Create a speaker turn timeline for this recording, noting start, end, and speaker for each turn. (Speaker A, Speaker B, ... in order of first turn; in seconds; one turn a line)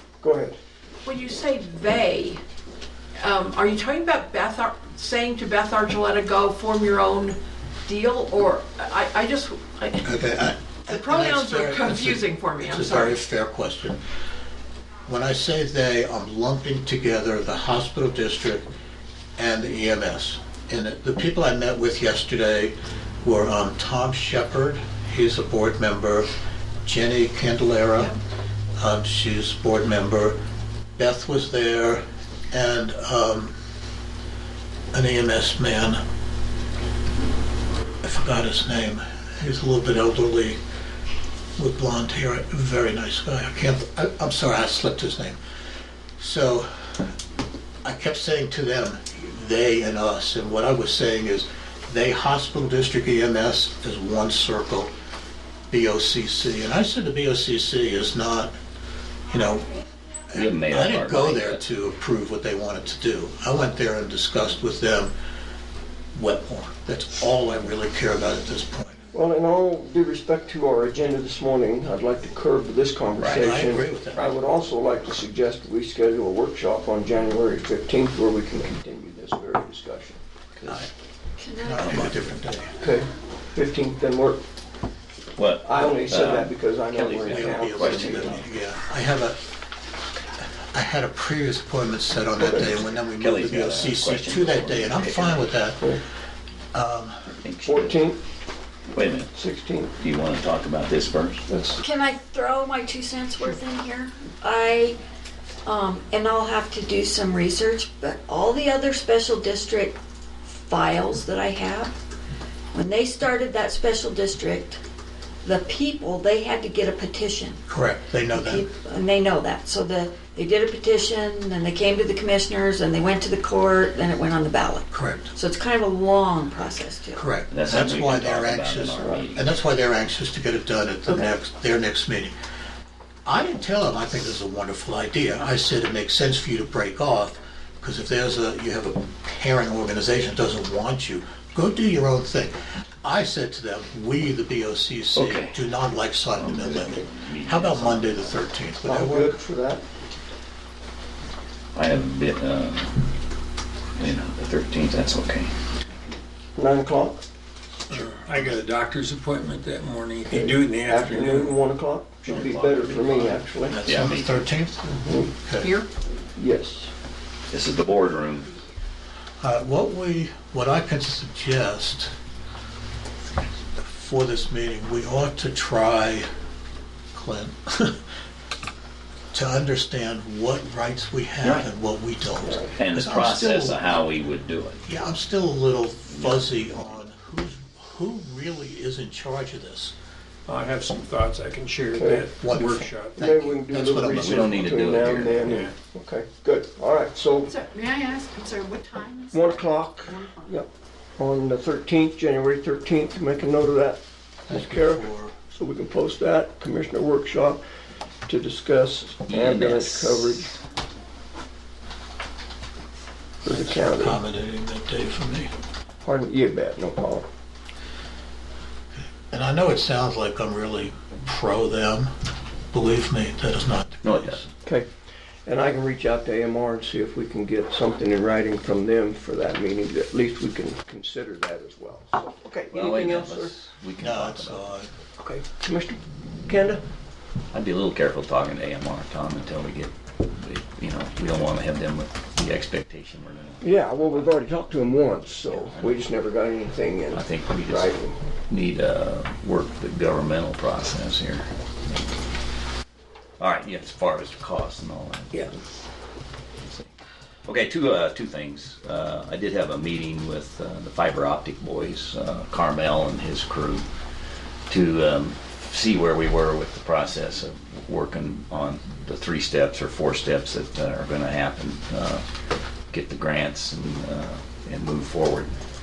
Speaker A: 0.2-0.6
Speaker B: 1.1-2.4
Speaker B: 3.2-10.2
Speaker C: 10.0-14.0
Speaker B: 10.9-13.2
Speaker C: 15.1-18.7
Speaker C: 19.4-26.3
Speaker C: 26.8-28.2
Speaker C: 28.8-30.4
Speaker C: 31.0-33.5
Speaker C: 34.9-36.0
Speaker C: 38.0-40.6
Speaker C: 41.6-45.4
Speaker C: 46.2-46.7
Speaker C: 47.8-54.9
Speaker C: 55.7-58.6
Speaker C: 59.3-59.7
Speaker C: 60.3-65.1
Speaker D: 60.3-61.6
Speaker C: 66.1-69.0
Speaker A: 69.1-80.2
Speaker D: 73.2-73.6
Speaker C: 73.4-74.3
Speaker D: 80.5-80.9
Speaker E: 81.4-82.2
Speaker C: 81.6-82.7
Speaker A: 82.8-84.4
Speaker D: 85.4-88.5
Speaker A: 85.7-88.4
Speaker C: 87.3-89.4
Speaker C: 90.7-95.9
Speaker A: 92.4-92.8
Speaker D: 93.1-95.5
Speaker C: 96.7-97.3
Speaker D: 97.4-98.1
Speaker A: 97.6-98.2
Speaker D: 98.9-99.3
Speaker A: 99.3-99.9
Speaker D: 100.0-101.4
Speaker A: 101.5-101.8
Speaker E: 101.8-105.0
Speaker E: 105.6-112.0
Speaker E: 112.7-114.8
Speaker E: 115.4-117.6
Speaker C: 117.7-118.6
Speaker E: 118.3-127.3
Speaker C: 124.9-125.3
Speaker C: 127.1-132.3
Speaker D: 127.5-129.5
Speaker C: 133.2-149.4
Speaker D: 145.1-145.6
Speaker D: 146.4-148.4
Speaker A: 148.8-149.8
Speaker D: 151.8-153.1
Speaker D: 153.9-155.5
Speaker A: 156.6-157.2
Speaker F: 157.9-161.7
Speaker A: 160.3-163.8
Speaker F: 162.2-163.4
Speaker C: 163.7-164.9
Speaker D: 163.9-164.5
Speaker A: 164.9-165.3
Speaker C: 165.4-165.7
Speaker B: 165.6-165.9
Speaker A: 166.4-166.9
Speaker D: 167.5-168.5
Speaker C: 169.4-172.1
Speaker C: 173.8-176.3
Speaker C: 177.1-178.0
Speaker C: 179.3-183.8
Speaker D: 182.8-184.9
Speaker C: 184.9-189.9
Speaker D: 186.1-186.9
Speaker F: 190.5-193.2
Speaker A: 192.0-192.2
Speaker C: 192.4-194.6
Speaker A: 193.2-197.5
Speaker D: 194.0-195.6
Speaker F: 195.4-195.8
Speaker B: 197.7-198.4
Speaker A: 199.3-207.6
Speaker C: 204.5-205.3
Speaker A: 208.3-210.5
Speaker D: 209.3-210.5
Speaker A: 213.4-214.2
Speaker C: 213.5-215.5
Speaker A: 216.0-217.2
Speaker C: 218.9-222.1
Speaker C: 222.7-224.5
Speaker D: 224.0-224.5
Speaker A: 225.4-233.5
Speaker D: 232.7-234.8
Speaker C: 234.0-234.9
Speaker A: 235.2-236.8
Speaker D: 237.5-244.4
Speaker A: 243.6-248.2
Speaker D: 245.4-246.1
Speaker D: 247.1-247.9
Speaker D: 248.5-252.0
Speaker D: 253.4-255.6
Speaker D: 256.6-256.9
Speaker D: 257.5-263.9
Speaker D: 264.7-272.2
Speaker D: 272.9-275.6